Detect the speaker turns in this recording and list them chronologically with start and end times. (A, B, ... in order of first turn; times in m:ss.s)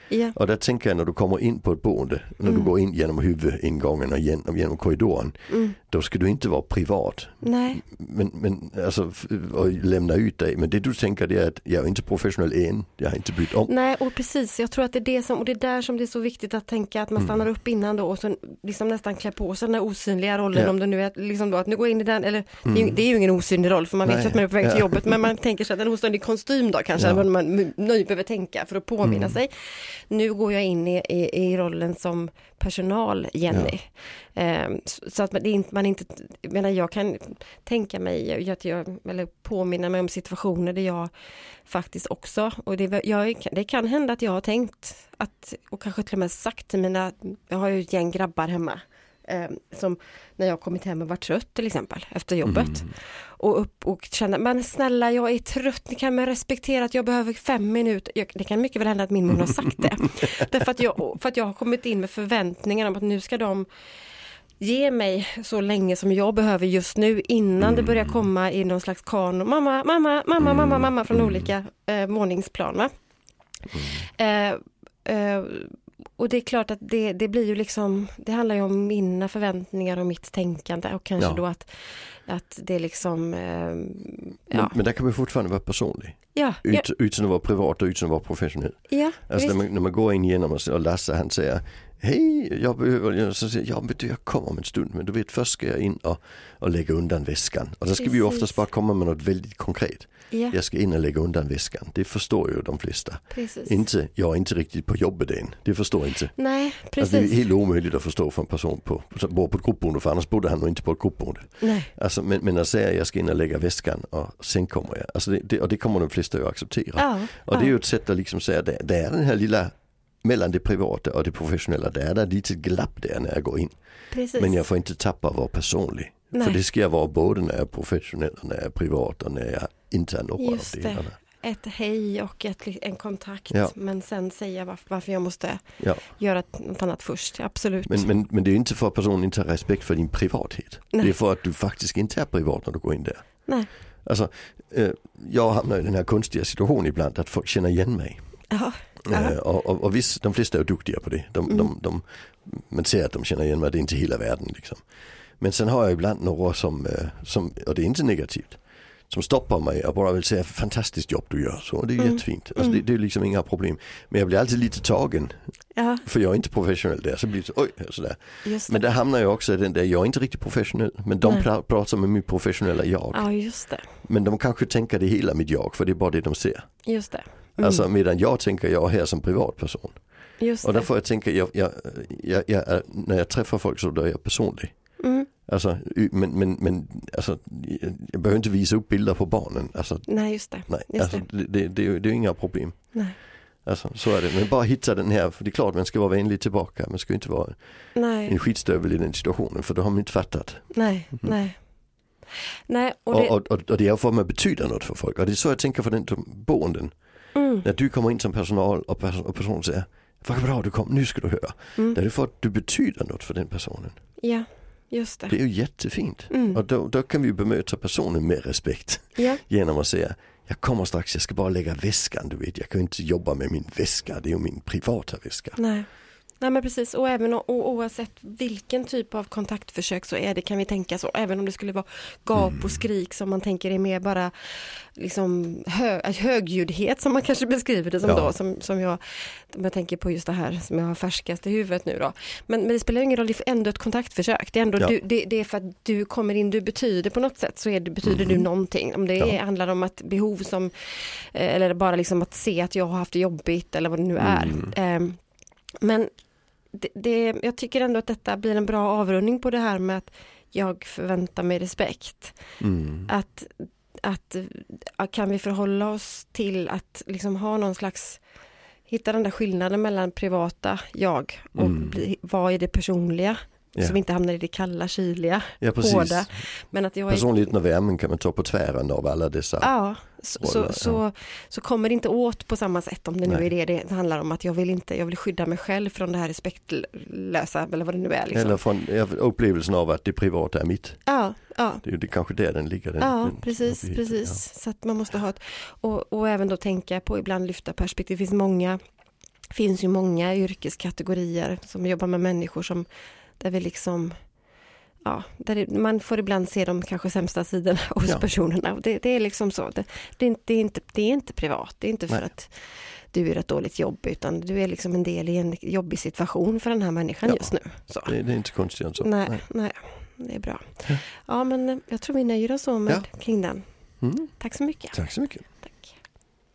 0:00.1-0:00.3 A
0:00.3-0:13.7 B
0:05.5-0:05.8 A
0:07.4-0:07.8 A
0:13.7-0:29.5 A
0:22.6-0:23.0 B
0:24.0-0:25.2 B
0:27.0-0:27.2 B
0:29.0-0:29.4 B
0:30.1-0:41.1 A
0:41.7-1:03.6 A
0:52.4-0:52.9 B
1:04.6-1:12.9 A
1:07.6-1:08.1 B
1:10.4-1:11.5 B
1:13.7-1:14.1 B
1:14.1-1:21.7 A
1:22.3-1:24.7 A
1:24.5-1:28.8 B
1:26.3-1:26.8 A
1:28.9-1:29.6 A
1:29.3-1:46.3 B
1:38.0-1:38.6 A
1:40.3-1:40.6 A
1:43.3-1:43.8 A
1:46.4-1:47.4 A
1:47.0-2:03.7 B
1:51.6-1:51.9 A
1:57.0-1:57.7 A
2:04.1-2:04.6 A
2:04.4-2:11.2 B
2:06.3-2:06.6 A
2:10.4-2:18.1 A
2:17.8-2:23.2 B
2:24.0-2:28.2 B
2:28.5-2:29.4 A
2:29.1-2:34.8 B
2:35.4-2:45.3 B
2:42.0-2:42.8 A
2:45.8-2:46.0 A
2:46.0-2:53.3 B
2:48.4-2:48.9 A
2:53.1-2:53.8 A
2:54.0-2:56.7 B
2:56.8-2:57.8 A
2:57.6-3:00.0 B
3:00.4-3:00.9 A
3:00.6-3:04.7 B
3:05.0-3:05.3 A
3:05.5-3:10.1 B
3:10.1-3:11.2 A
3:10.7-3:12.8 B
3:13.6-3:17.6 B
3:18.0-3:18.3 A
3:18.2-3:20.7 B
3:20.7-3:21.6 A
3:22.7-3:23.3 A
3:23.1-3:26.9 B
3:27.3-3:27.6 A
3:27.6-3:34.0 B
3:34.2-3:35.3 A
3:35.3-3:45.6 B
3:36.3-3:36.6 A
3:45.6-3:45.9 A
3:46.4-3:54.3 A
3:52.3-3:52.8 B
3:55.0-4:15.2 A
3:58.0-3:58.3 B
4:08.0-4:08.4 B
4:14.2-4:14.7 B
4:15.8-4:16.1 A
4:16.7-4:22.4 A
4:22.6-4:23.1 B
4:23.1-4:28.2 A
4:28.9-4:37.3 A
4:31.6-4:32.0 B
4:35.6-4:36.3 B
4:37.1-4:39.7 B
4:39.6-4:48.6 A
4:40.4-4:41.0 B
4:48.3-4:51.0 B
4:51.1-4:51.8 A
4:51.8-4:54.4 B
4:53.0-4:58.8 A
4:59.5-5:02.9 A
5:03.4-5:04.2 A
5:05.0-5:12.5 A
5:13.1-5:18.1 A
5:17.2-5:17.5 B
5:18.0-5:19.4 B
5:19.0-5:23.6 A
5:24.0-5:24.3 B
5:24.4-5:24.9 A
5:24.9-5:25.4 B
5:25.6-5:25.9 A